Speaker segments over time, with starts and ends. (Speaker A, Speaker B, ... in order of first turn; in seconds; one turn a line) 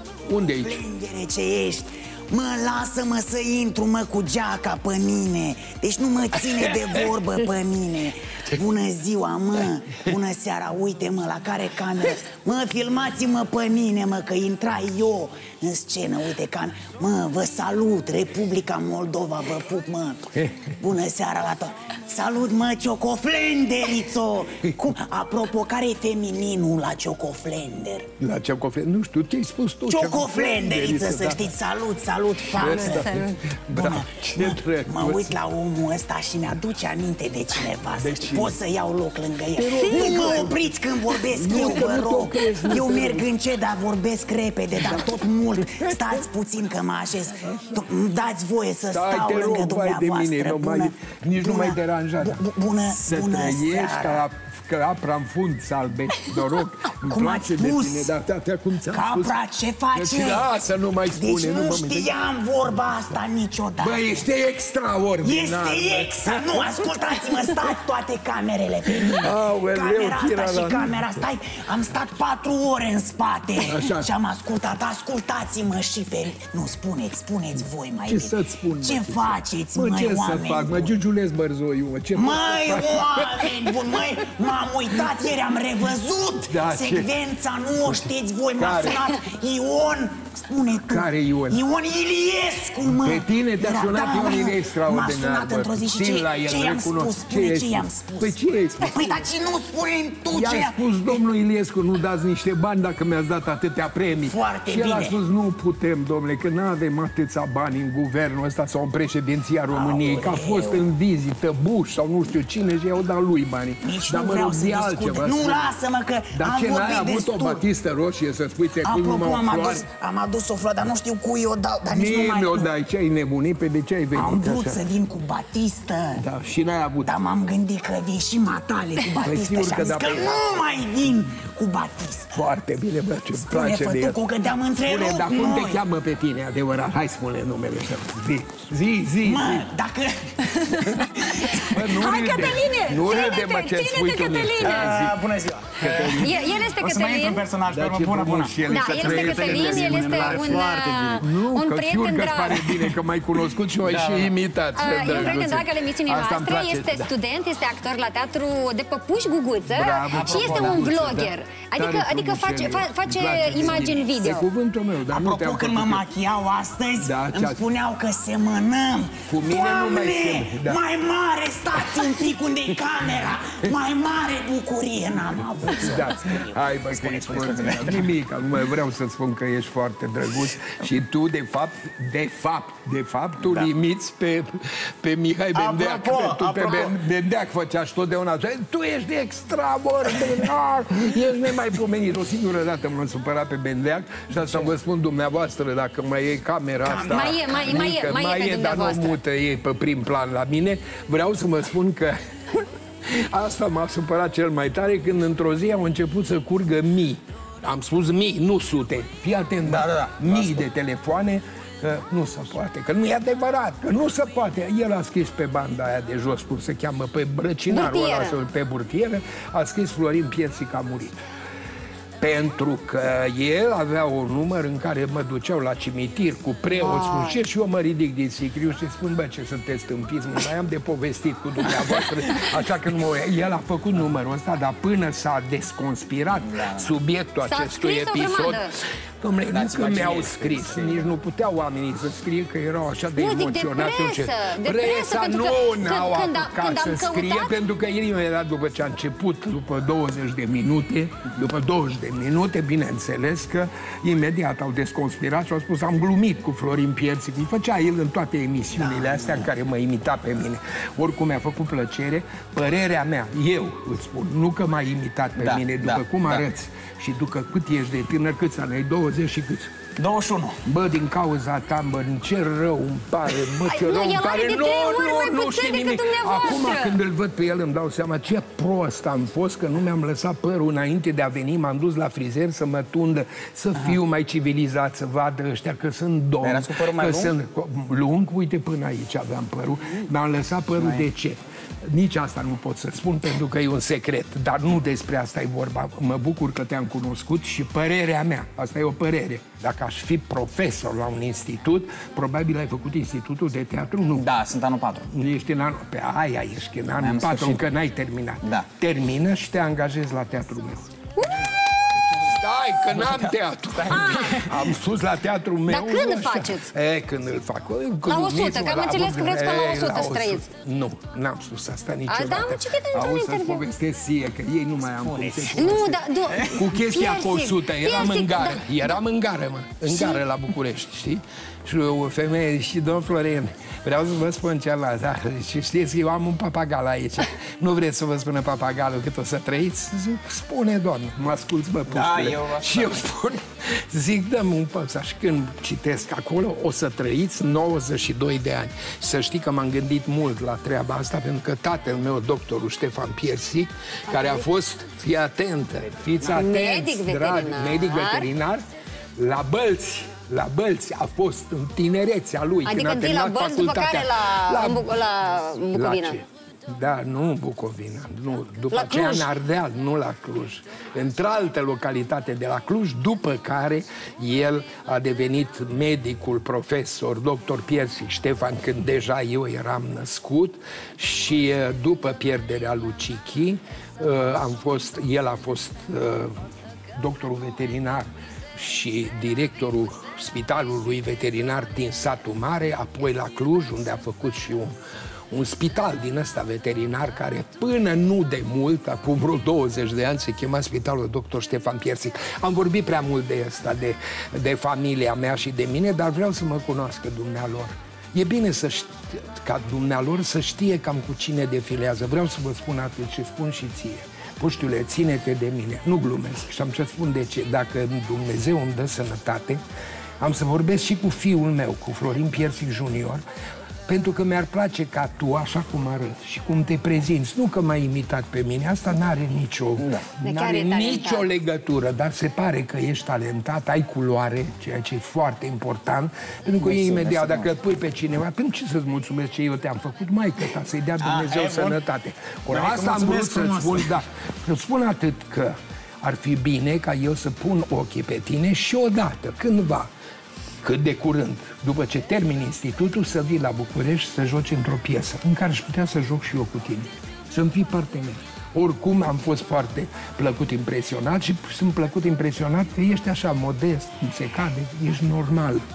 Speaker A: 0.3-0.8
Speaker B: 0.6-28.1
Speaker A: 6.3-7.2
Speaker A: 20.3-20.7
Speaker A: 28.2-31.5
Speaker B: 29.9-54.3
Speaker A: 32.5-35.4
Speaker C: 32.6-33.4
Speaker A: 37.9-38.6
Speaker A: 39.6-40.7
Speaker C: 39.6-40.4
Speaker A: 41.2-43.3
Speaker A: 44.8-46.2
Speaker A: 48.9-59.4
Speaker B: 57.0-58.1
Speaker B: 58.9-60.5
Speaker A: 59.9-62.2
Speaker B: 61.1-64.2
Speaker A: 63.8-67.7
Speaker B: 65.2-80.9
Speaker A: 68.9-71.1
Speaker A: 73.6-74.1
Speaker A: 78.0-83.8
Speaker B: 82.1-101.2
Speaker A: 84.9-85.2
Speaker A: 86.4-87.1
Speaker A: 87.9-89.1
Speaker A: 90.8-91.6
Speaker A: 92.8-99.3
Speaker A: 100.2-115.8
Speaker B: 104.2-105.2
Speaker B: 109.7-110.8
Speaker B: 113.8-117.7
Speaker A: 116.3-119.8
Speaker B: 118.8-122.7
Speaker A: 121.8-124.8
Speaker B: 124.1-126.2
Speaker A: 126.1-127.1
Speaker B: 127.0-132.4
Speaker A: 129.1-130.7
Speaker A: 132.3-134.2
Speaker B: 133.3-135.8
Speaker A: 134.8-139.7
Speaker B: 139.2-141.8
Speaker A: 140.9-146.6
Speaker C: 141.5-145.0
Speaker D: 144.6-151.2
Speaker C: 145.8-147.4
Speaker A: 147.7-150.7
Speaker C: 148.7-152.9
Speaker A: 151.2-157.1
Speaker D: 153.8-154.3
Speaker C: 154.7-164.4
Speaker A: 159.7-166.1
Speaker D: 160.1-160.9
Speaker B: 165.1-178.1
Speaker A: 167.0-167.6
Speaker A: 169.3-170.8
Speaker A: 175.7-221.2
Speaker D: 177.6-177.9
Speaker B: 185.5-186.9
Speaker B: 196.8-197.8
Speaker C: 197.1-199.2
Speaker D: 209.6-210.6
Speaker C: 217.7-218.4
Speaker A: 222.2-269.7
Speaker C: 226.7-227.4
Speaker D: 236.5-236.9
Speaker C: 237.4-238.7
Speaker D: 239.5-241.1
Speaker C: 243.2-247.6
Speaker B: 258.7-259.5
Speaker D: 265.4-266.4
Speaker D: 270.0-270.6
Speaker A: 270.6-304.3
Speaker C: 273.6-277.0
Speaker D: 286.4-287.3
Speaker D: 304.2-305.1
Speaker A: 305.1-310.9
Speaker D: 307.0-307.6
Speaker C: 311.2-311.4
Speaker A: 312.2-326.0
Speaker D: 312.9-313.3
Speaker D: 313.8-314.6
Speaker C: 313.9-314.5
Speaker C: 315.7-316.7
Speaker C: 318.1-320.5
Speaker C: 322.1-323.6
Speaker D: 325.1-325.5
Speaker C: 325.5-329.0
Speaker A: 326.5-358.6
Speaker C: 329.9-330.2
Speaker D: 341.9-343.0
Speaker C: 354.1-354.4
Speaker C: 356.2-358.3
Speaker A: 359.2-364.9
Speaker C: 362.6-366.2
Speaker A: 365.7-394.8
Speaker C: 368.7-369.3
Speaker A: 395.3-419.6
Speaker A: 420.2-423.2
Speaker A: 423.9-449.9
Speaker C: 430.2-431.3
Speaker D: 436.6-437.5
Speaker D: 441.0-441.8
Speaker D: 442.5-444.0
Speaker A: 450.6-465.6